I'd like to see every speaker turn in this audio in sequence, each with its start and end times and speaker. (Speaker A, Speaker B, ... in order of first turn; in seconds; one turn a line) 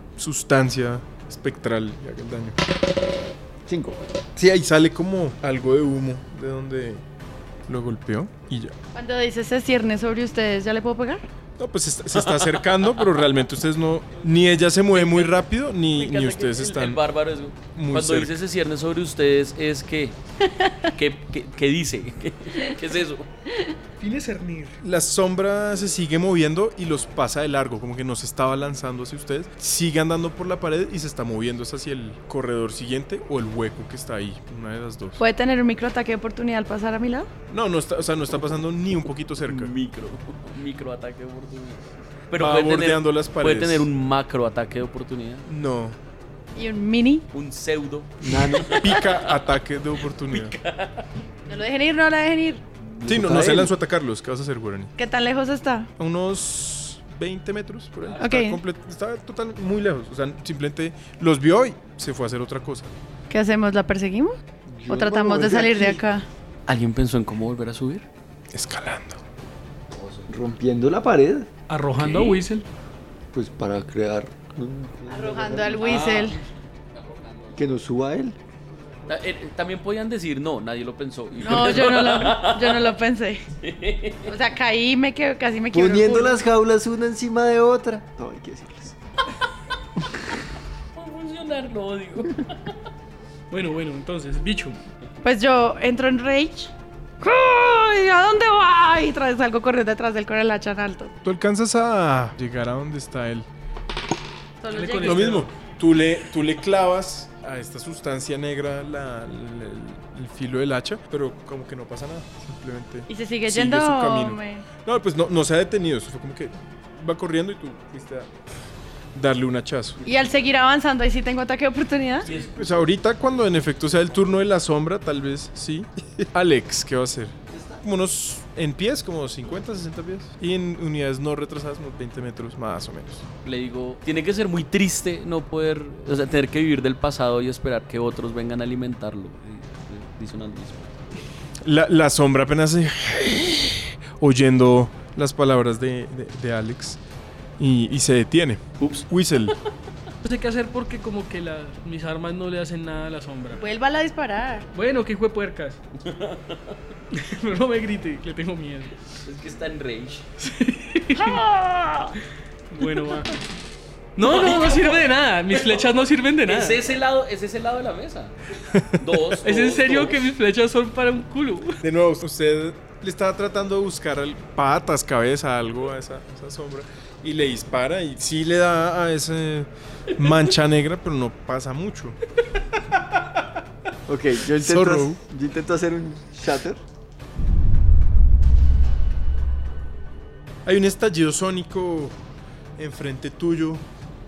Speaker A: 0.2-2.5
Speaker B: 3.6-4.0
Speaker A: 4.4-7.0
Speaker A: 7.7-8.7
Speaker C: 8.9-11.2
Speaker A: 11.6-17.0
Speaker D: 12.2-13.1
Speaker D: 14.9-15.4
Speaker C: 16.0-16.7
Speaker D: 16.6-20.2
Speaker A: 17.7-18.3
Speaker D: 20.9-23.3
Speaker E: 24.0-24.8
Speaker A: 24.8-35.2
Speaker C: 35.2-37.3
Speaker A: 37.5-39.7
Speaker D: 39.4-45.5
Speaker A: 42.4-43.9
Speaker A: 45.5-46.0
Speaker C: 46.5-47.2
Speaker D: 47.3-49.4
Speaker B: 48.2-48.7
Speaker A: 48.2-50.5
Speaker D: 50.0-51.1
Speaker C: 51.5-52.6
Speaker B: 52.8-53.7
Speaker A: 53.0-54.9
Speaker C: 55.0-55.9
Speaker A: 56.0-62.9
Speaker C: 58.2-58.6
Speaker C: 63.3-64.3
Speaker B: 64.7-66.0
Speaker C: 64.9-66.2
Speaker D: 66.7-68.0
Speaker A: 68.5-69.2
Speaker D: 70.0-70.2
Speaker B: 70.3-71.5
Speaker E: 71.7-72.7
Speaker D: 72.0-72.4
Speaker B: 73.3-76.1
Speaker C: 75.1-76.4
Speaker D: 75.8-77.6
Speaker B: 77.5-78.4
Speaker D: 79.1-83.0
Speaker C: 81.4-83.4
Speaker D: 83.6-84.3
Speaker C: 84.3-86.4
Speaker B: 85.7-89.0
Speaker D: 90.9-92.5
Speaker E: 93.5-94.8
Speaker C: 95.2-101.1
Speaker A: 101.2-103.5
Speaker C: 104.6-105.5
Speaker E: 104.7-105.6
Speaker A: 105.0-118.3
Speaker C: 113.1-114.7
Speaker A: 119.1-120.0
Speaker C: 120.0-122.3
Speaker D: 122.2-122.9
Speaker A: 122.5-133.2
Speaker B: 127.5-127.8
Speaker D: 133.4-141.2
Speaker A: 141.6-147.0
Speaker A: 147.6-149.5
Speaker D: 148.8-149.5
Speaker E: 150.2-153.6
Speaker C: 153.6-154.7
Speaker E: 154.7-155.8
Speaker D: 156.0-156.6
Speaker E: 157.1-158.9
Speaker D: 159.2-160.3
Speaker E: 160.4-161.5
Speaker E: 162.7-163.3
Speaker E: 164.2-166.8
Speaker D: 164.2-165.0
Speaker D: 166.4-168.3
Speaker A: 168.7-169.0
Speaker D: 169.0-170.2
Speaker E: 169.4-171.8
Speaker A: 171.8-182.2
Speaker B: 184.1-186.8
Speaker A: 184.6-185.2
Speaker A: 190.6-192.2
Speaker A: 192.8-193.8